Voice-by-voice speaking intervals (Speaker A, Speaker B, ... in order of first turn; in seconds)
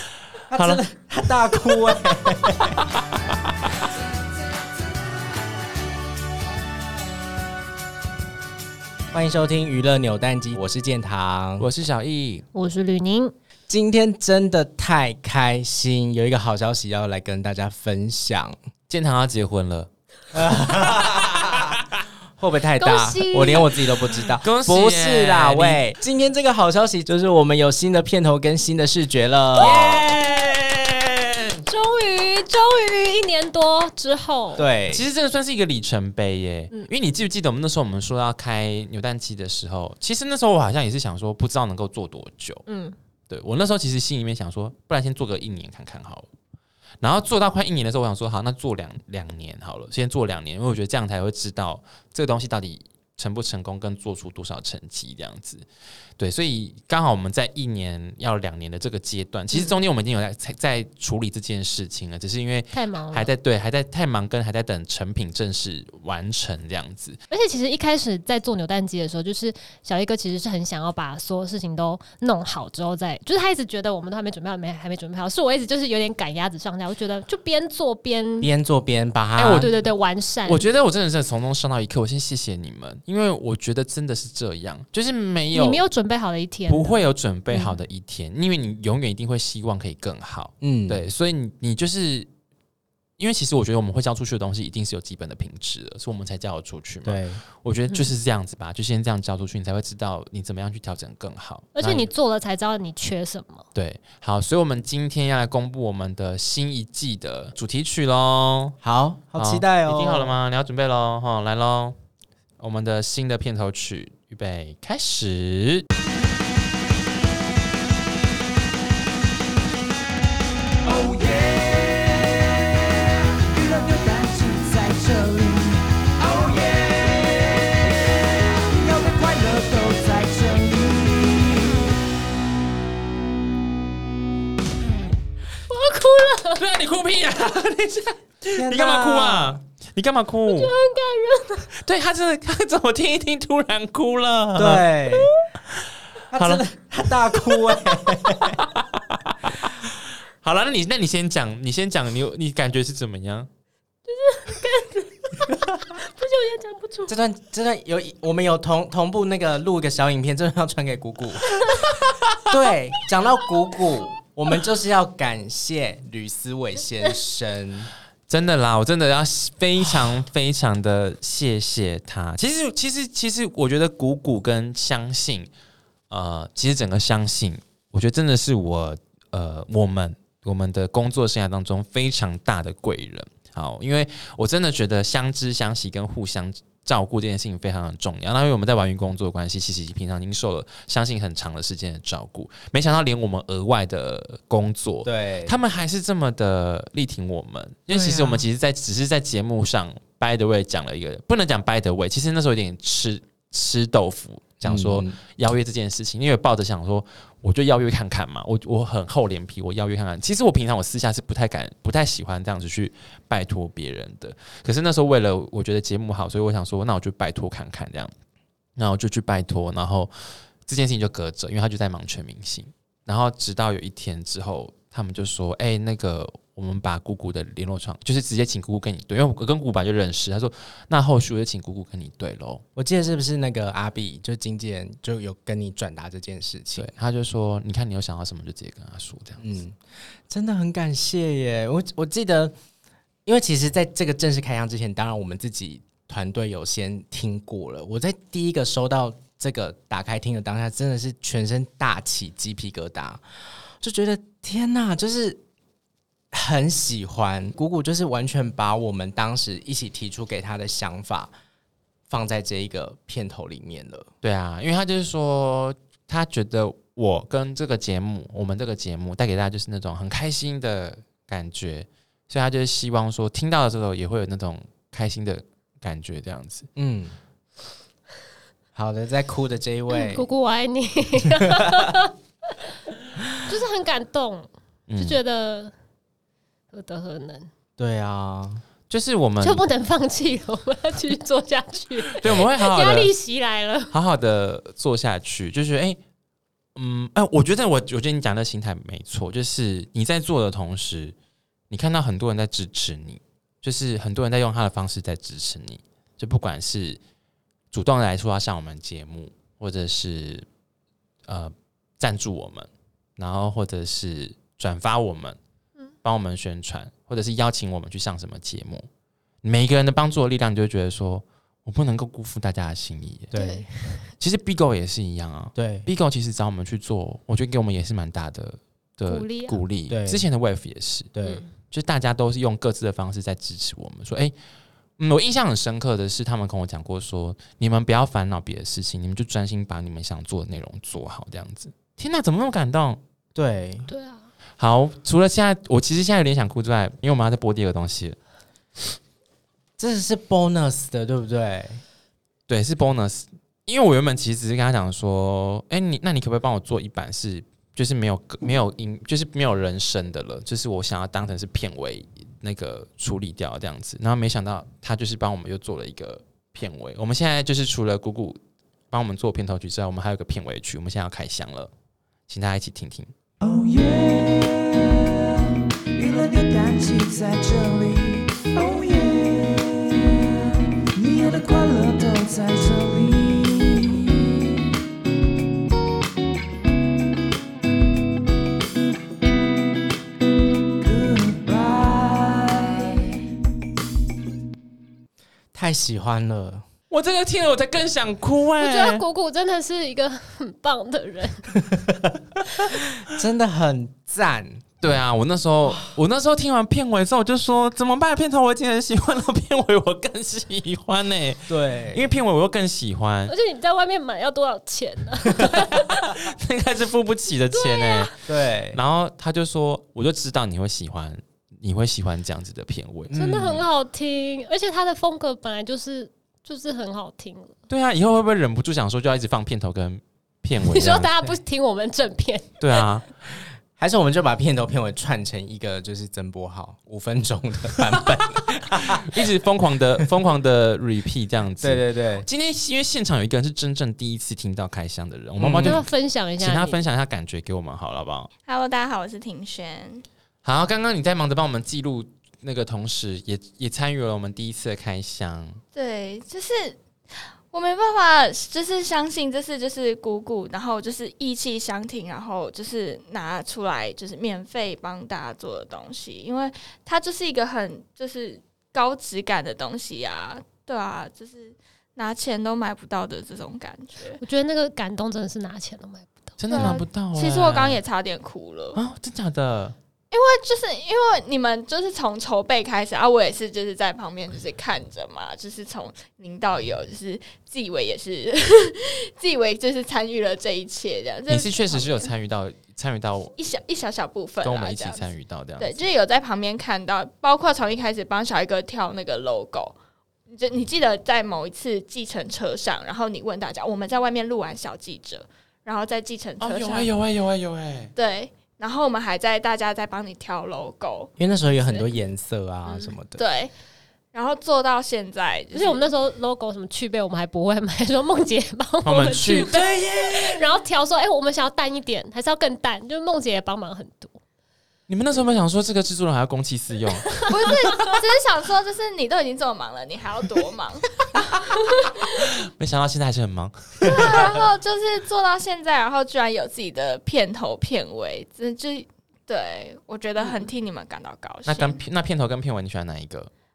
Speaker A: 0.5-2.8, 9.1-11.7, 13.7-18.6, 20.3-21.6, 22.4-30.1, 34.5-35.0, 78.4-79.7, 90.6-91.1, 97.0-97.4, 108.8-110.3, 138.5-139.6, 144.6-145.3, 146.3-148.6, 157.1-161.6, 162.4-167.9, 195.0-195.6, 197.9-198.5, 204.6-205.2, 232.8-236.9, 239.4-239.8, 240.3-242.5, 243.2-253.2, 253.8-255.4, 256.3-261.3, 262.1-264.1, 276.8-277.2, 278.7-280.2, 287.8-288.6, 292.2-292.5, 323.3-323.7, 325.6-325.9, 329.9-330.2, 331.1-331.4, 343.3-343.9, 349.8-351.8, 395.5-396.6, 403.0-404.6, 411.5-412.1, 418.3-418.8, 423.1-423.6, 433.7-439.2, 441.6-442.3, 445.4-445.8, 511.2-513.2
Speaker B: 0.5-0.8, 11.6-12.4, 18.9-19.9, 20.9-21.5, 24.4-25.8, 29.6-31.6, 34.9-42.6, 43.3-46.3, 47.0-55.6, 56.2-67.2, 79.3-79.8, 80.4-85.8, 86.7-92.3, 93.2-102.1, 103.7-108.8, 109.4-112.0, 112.6-115.8, 136.5-140.7, 141.7-144.8, 146.3-146.6, 148.4-153.5, 168.3-175.5, 176.1-218.1, 218.8-220.1, 220.6-232.6, 236.8-239.4, 264.2-276.7, 284.9-285.2, 288.9-289.6, 292.2-293.1, 293.9-296.0, 296.8-301.1, 301.7-307.0, 307.7-310.4, 311.3-315.4, 316.0-318.9, 319.4-323.3, 324.2-331.1, 331.7-334.3, 335.0-343.0, 344.6-348.2, 352.5-368.4, 368.9-371.7, 372.3-373.1, 396.9-399.1, 404.8-413.3, 415.4-418.1, 418.7-423.1, 427.7-431.1, 432.6-433.0, 438.9-448.3, 450.4-455.6, 476.4-477.8, 478.7-479.7, 491.3-493.3, 494.4-495.8, 506.4-507.9, 518.8-519.6, 524.9-527.4, 532.2-533.9, 541.5-543.3
Speaker C: 12.5-13.3, 22.8-23.7, 29.6-30.2, 31.6-34.7, 42.7-43.0, 59.5-59.8, 62.7-63.3, 67.3-78.5, 79.5-80.7, 85.5-87.8, 101.7-103.6, 135.6-136.6, 140.5-141.7, 154.1-157.1, 279.9-282.1, 283.4-285.7, 286.7-287.5, 289.4-293.9, 323.3-324.1, 329.1-329.6, 331.2-331.5, 343.9-344.3, 398.6-401.5, 413.3-415.9, 417.5-418.1, 423.1-427.5, 430.6-432.6, 445.6-446.9, 474.2-476.7, 512.7-512.9, 515.5-524.2
Speaker D: 120.8-131.9, 373.4-384.6, 390.8-393.1
Speaker E: 448.4-450.0, 455.7-456.8, 457.5-474.2, 476.5-478.8, 480.1-492.1, 493.3-499.8, 500.3-506.9, 507.9-511.1, 513.2-513.5, 514.1-515.8, 527.3-532.3, 533.8-541.8